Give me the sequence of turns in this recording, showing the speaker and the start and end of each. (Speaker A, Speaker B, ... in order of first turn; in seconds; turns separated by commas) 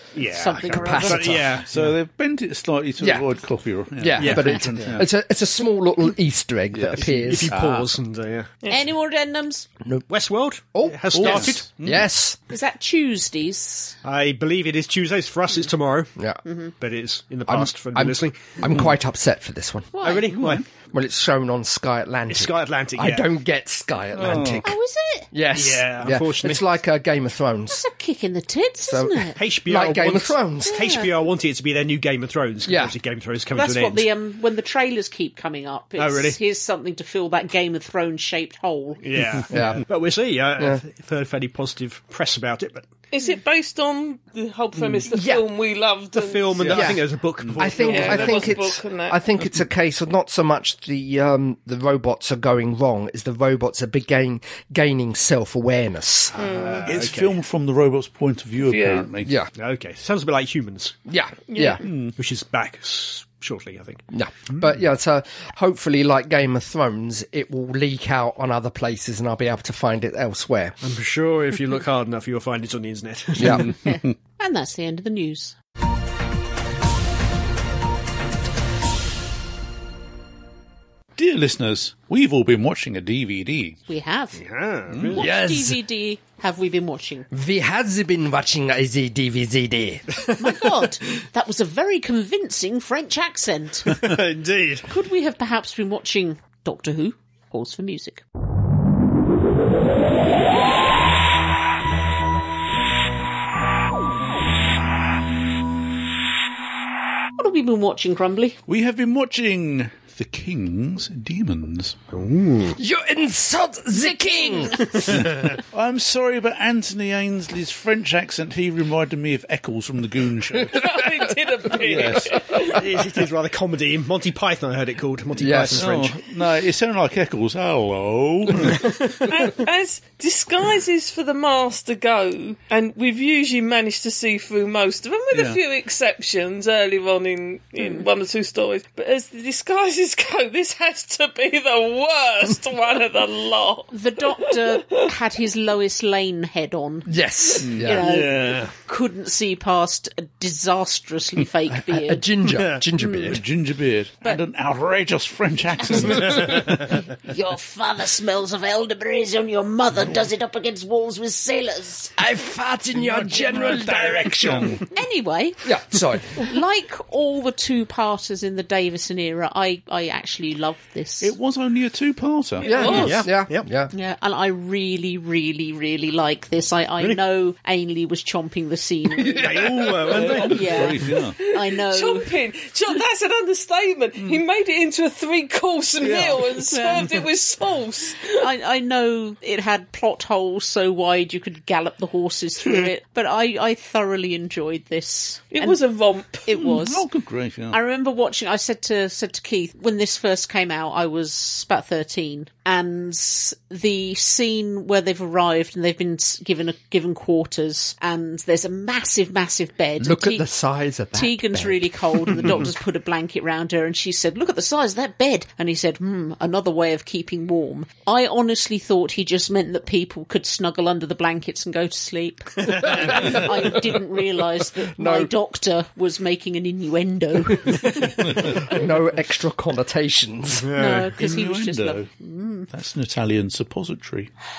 Speaker A: 0.1-1.9, Speaker B: 0.3-1.6, Speaker C: 0.7-1.6, Speaker D: 1.7-5.1, Speaker C: 3.0-3.3, Speaker C: 4.0-7.5, Speaker A: 4.2-4.6, Speaker D: 6.7-7.9, Speaker A: 7.0-8.5, Speaker B: 8.7-9.7, Speaker A: 10.1-11.7, Speaker C: 10.7-12.4, Speaker D: 11.1-12.1, Speaker B: 12.5-14.0, Speaker A: 14.0-16.1, Speaker B: 16.4-16.7, Speaker A: 16.8-18.6, Speaker C: 17.5-20.0, Speaker B: 19.9-20.4, Speaker A: 20.0-20.6, Speaker D: 20.3-20.6, Speaker C: 20.9-24.8, Speaker A: 22.3-23.3, Speaker D: 24.1-24.7, Speaker B: 24.6-25.3, Speaker C: 25.3-27.9, Speaker A: 25.5-26.7, Speaker B: 27.7-29.4, Speaker C: 28.9-31.0, Speaker A: 29.4-34.1, Speaker B: 30.6-31.1, Speaker C: 32.6-33.0, Speaker B: 33.5-39.0, Speaker A: 36.0-36.4, Speaker A: 39.0-42.9, Speaker C: 39.5-39.8, Speaker D: 39.6-39.8, Speaker E: 43.1-46.8, Speaker C: 45.1-45.5, Speaker A: 46.1-48.5, Speaker C: 46.7-56.4, Speaker D: 47.4-47.7, Speaker E: 47.8-49.2, Speaker E: 56.4-56.9, Speaker A: 56.4-57.4, Speaker D: 56.9-59.3, Speaker E: 58.6-59.1, Speaker C: 59.2-59.5, Speaker A: 59.5-61.0, Speaker C: 61.1-61.8, Speaker E: 61.5-61.9, Speaker D: 61.8-62.1, Speaker A: 62.1-64.1, Speaker C: 64.1-70.8, Speaker A: 70.8-73.8, Speaker C: 73.4-73.7, Speaker B: 73.6-75.6, Speaker D: 81.2-83.8, Speaker B: 83.9-84.4, Speaker A: 84.4-85.3, Speaker D: 84.9-85.2, Speaker B: 85.1-87.3, Speaker C: 85.1-85.8, Speaker C: 87.3-90.1, Speaker A: 90.3-90.7, Speaker B: 90.4-94.0, Speaker A: 93.9-94.9, Speaker B: 94.9-98.2, Speaker B: 107.4-108.6, Speaker D: 108.7-112.0, Speaker A: 112.1-112.8, Speaker C: 112.7-115.1, Speaker B: 114.0-115.0, Speaker D: 115.1-121.0, Speaker E: 120.7-122.8, Speaker D: 121.7-122.5, Speaker A: 122.6-126.2, Speaker C: 125.4-125.9, Speaker D: 125.8-128.9, Speaker A: 128.7-129.2, Speaker E: 129.3-145.1, Speaker D: 135.3-135.6, Speaker B: 137.8-138.1, Speaker B: 143.9-147.1, Speaker C: 147.1-148.1, Speaker D: 147.6-148.2, Speaker B: 147.8-152.3, Speaker A: 148.0-148.7, Speaker C: 151.7-153.4, Speaker A: 152.5-152.8, Speaker B: 153.0-153.4, Speaker D: 153.3-156.9, Speaker B: 155.8-162.2, Speaker C: 162.2-164.8, Speaker D: 162.9-164.8, Speaker B: 164.9-165.7, Speaker C: 165.6-166.4, Speaker B: 166.3-171.3, Speaker D: 171.2-172.7, Speaker E: 172.6-173.2, Speaker C: 172.7-173.9, Speaker B: 172.8-173.2, Speaker A: 172.9-173.7, Speaker B: 173.9-182.3, Speaker C: 179.1-180.4, Speaker A: 179.4-180.8, Speaker D: 179.6-181.4, Speaker E: 181.4-188.5, Speaker B: 186.2-187.3, Speaker B: 188.3-195.8, Speaker E: 195.5-196.5, Speaker B: 196.4-197.1, Speaker D: 196.6-197.8, Speaker B: 197.7-210.5, Speaker C: 210.0-212.6, Speaker B: 211.1-228.2, Speaker A: 222.7-223.1, Speaker C: 222.9-223.4, Speaker C: 224.6-225.3, Speaker C: 228.6-230.7, Speaker A: 230.6-231.1, Speaker B: 230.8-232.7, Speaker D: 231.2-232.1, Speaker D: 232.7-234.3